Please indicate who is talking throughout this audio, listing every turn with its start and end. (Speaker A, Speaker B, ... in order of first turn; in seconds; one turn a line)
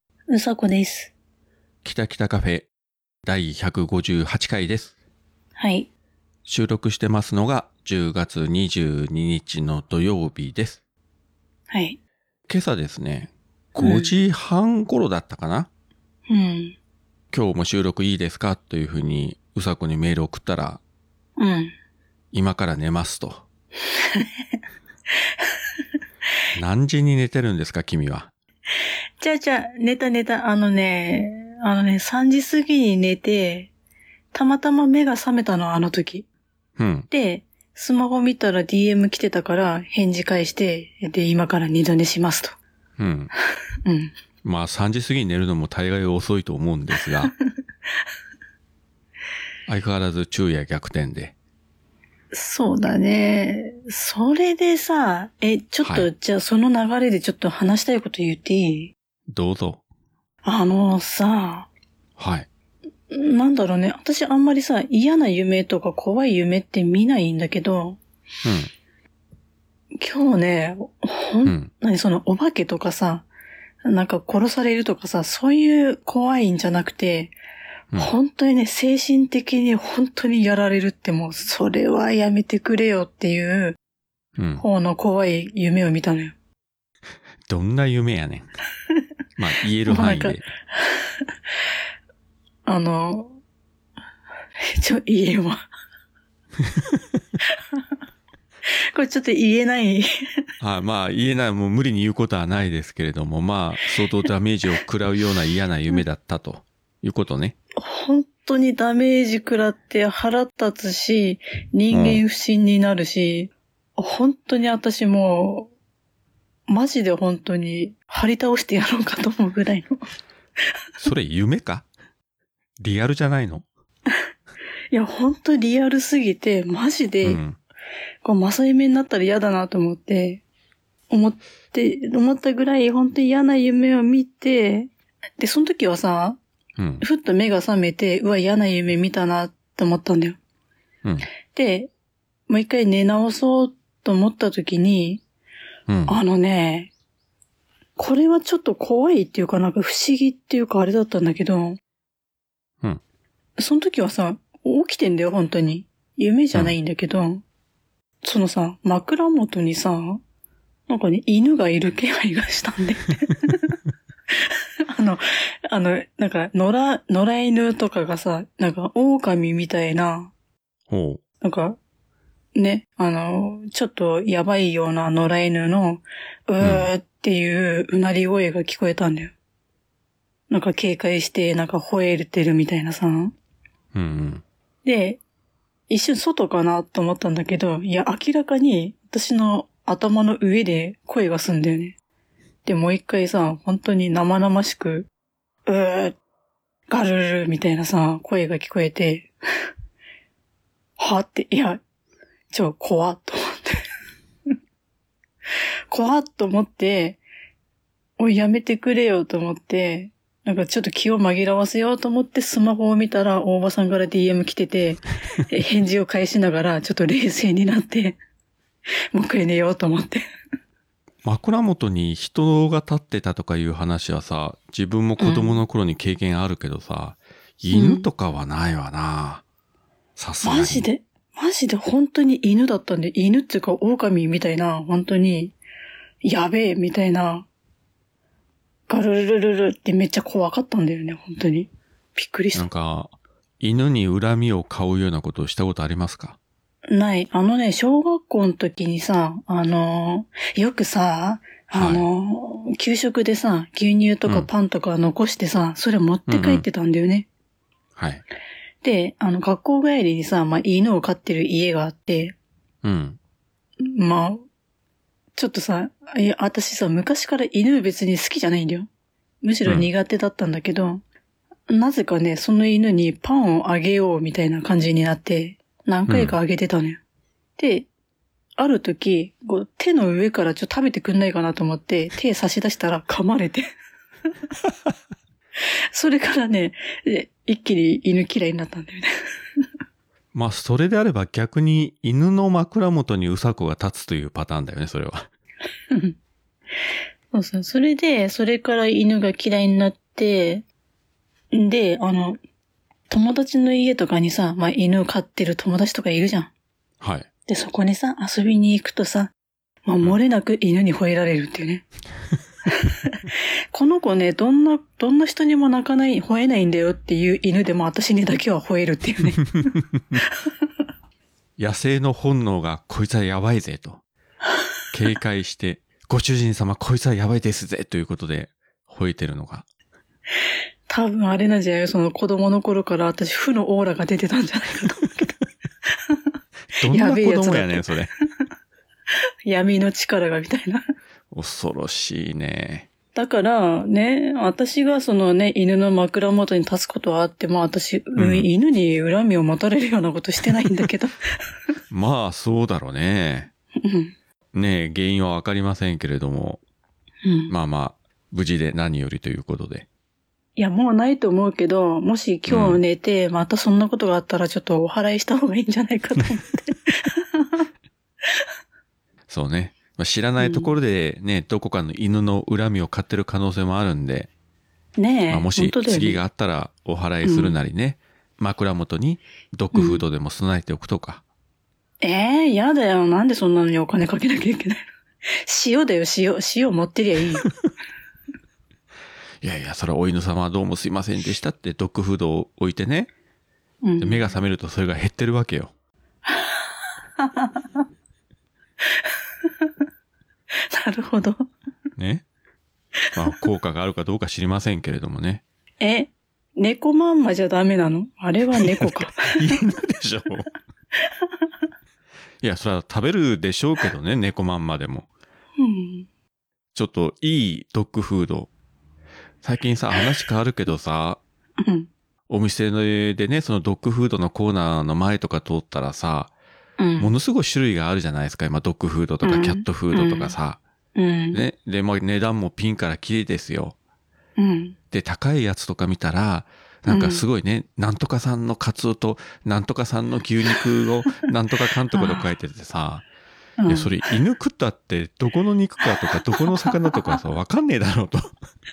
Speaker A: 0.3-1.1
Speaker B: 1.8-2.7
Speaker B: 3.2-4.9
Speaker A: 5.6-5.9
Speaker B: 6.5-10.8
Speaker A: 11.7-12.0
Speaker B: 12.5-15.7
Speaker A: 13.8-14.1
Speaker A: 16.3-16.8
Speaker B: 17.3-20.8
Speaker A: 21.4-21.7
Speaker B: 22.3-23.4
Speaker A: 23.9-24.3
Speaker B: 26.5-28.3
Speaker A: 29.2-33.7
Speaker A: 34.3-36.2
Speaker B: 36.8-37.1
Speaker A: 37.1-42.6
Speaker B: 43.0-43.3
Speaker A: 43.9-44.1
Speaker B: 44.4-47.3
Speaker B: 49.7-51.3
Speaker A: 52.3-58.9
Speaker B: 55.8-56.1
Speaker B: 59.3-59.8
Speaker A: 60.4-61.7
Speaker B: 62.2-62.5
Speaker A: 63.1-68.0
Speaker B: 68.4-68.7
Speaker A: 69.9-73.3
Speaker B: 71.4-71.7
Speaker A: 73.8-77.3
Speaker A: 78.0-83.8
Speaker B: 84.4-84.6
Speaker A: 84.6-86.3
Speaker B: 87.5-88.5
Speaker B: 89.4-90.5
Speaker A: 89.9-91.1
Speaker A: 92.7-93.4
Speaker A: 94.7-95.6
Speaker B: 96.7-97.0
Speaker A: 98.9-100.0
Speaker B: 100.6-107.5
Speaker A: 107.8-115.7
Speaker B: 111.9-112.2
Speaker A: 116.7-120.0
Speaker B: 121.0-121.9
Speaker B: 122.8-123.6
Speaker A: 124.9-127.4
Speaker B: 127.2-127.6
Speaker A: 128.2-130.4
Speaker A: 131.1-136.4
Speaker B: 136.8-137.0
Speaker A: 137.0-140.4
Speaker A: 141.5-141.9
Speaker A: 142.5-145.2
Speaker B: 145.9-146.2
Speaker A: 146.1-146.9
Speaker A: 148.0-151.8
Speaker A: 153.6-157.4
Speaker A: 158.2-160.2
Speaker A: 160.9-163.7
Speaker A: 164.3-170.3
Speaker B: 170.9-171.2
Speaker A: 171.4-171.8
Speaker A: 172.5-179.3
Speaker B: 176.6-176.9
Speaker A: 180.5-183.3
Speaker B: 183.9-184.4
Speaker A: 184.8-185.2
Speaker A: 185.9-191.9
Speaker A: 192.6-195.1
Speaker A: 195.7-196.2
Speaker A: 196.9-199.3
Speaker A: 201.0-201.8
Speaker A: 202.5-203.8
Speaker A: 205.9-207.2
Speaker A: 208.2-218.2
Speaker A: 219.1-220.2
Speaker B: 221.2-229.4
Speaker A: 225.2-225.6
Speaker A: 227.7-228.1
Speaker B: 230.2-230.8
Speaker A: 230.4-235.5
Speaker A: 236.2-237.5
Speaker A: 238.9-242.7
Speaker B: 242.5-246.4
Speaker A: 246.9-257.3
Speaker B: 251.7-252.0
Speaker B: 256.3-256.6
Speaker B: 257.9-258.2
Speaker A: 258.8-262.3
Speaker B: 262.8-263.2
Speaker A: 263.8-264.4
Speaker A: 265.3-268.9
Speaker A: 269.4-271.0
Speaker A: 271.7-277.0
Speaker B: 276.1-276.4
Speaker A: 277.6-277.9
Speaker A: 278.6-283.7
Speaker A: 285.9-289.1
Speaker B: 290.3-295.3
Speaker A: 295.9-296.1
Speaker A: 297.3-300.6
Speaker A: 301.5-302.4
Speaker A: 303.1-306.5
Speaker B: 307.0-307.3
Speaker A: 307.5-309.3
Speaker A: 309.9-311.8
Speaker A: 312.8-313.2
Speaker A: 313.7-319.7
Speaker B: 321.6-324.0
Speaker B: 324.9-329.6
Speaker A: 330.9-335.3
Speaker B: 336.8-338.1
Speaker A: 336.9-337.9
Speaker A: 339.4-340.8
Speaker B: 341.3-342.9
Speaker A: 343.1-351.2
Speaker B: 348.2-348.5
Speaker B: 351.9-353.5
Speaker A: 353.8-354.1
Speaker B: 354.5-356.6
Speaker A: 357.2-357.5
Speaker B: 357.5-359.9
Speaker A: 360.6-367.6
Speaker B: 362.5-362.8
Speaker B: 369.3-374.3
Speaker A: 370.4-370.7
Speaker A: 375.0-376.2
Speaker B: 375.3-381.2
Speaker A: 377.2-377.6
Speaker A: 379.7-380.0
Speaker A: 382.0-384.9
Speaker A: 385.4-387.5
Speaker B: 389.4-393.1
Speaker A: 393.8-394.3
Speaker B: 394.0-395.7
Speaker A: 396.2-396.7
Speaker A: 397.2-397.6
Speaker A: 400.7-401.4
Speaker B: 402.0-402.2
Speaker B: 403.1-405.4
Speaker A: 405.8-409.5
Speaker B: 408.5-410.5
Speaker B: 412.4-415.1
Speaker A: 415.6-416.1
Speaker B: 416.7-418.5
Speaker B: 419.4-421.2
Speaker A: 421.6-421.9
Speaker B: 422.3-426.3
Speaker A: 426.8-427.1
Speaker B: 427.0-430.6
Speaker A: 429.2-430.3
Speaker A: 430.9-431.4
Speaker B: 431.3-433.8
Speaker A: 434.4-434.8
Speaker B: 434.9-443.1
Speaker A: 436.9-437.2
Speaker A: 441.9-442.3
Speaker A: 443.6-443.9
Speaker B: 443.7-448.3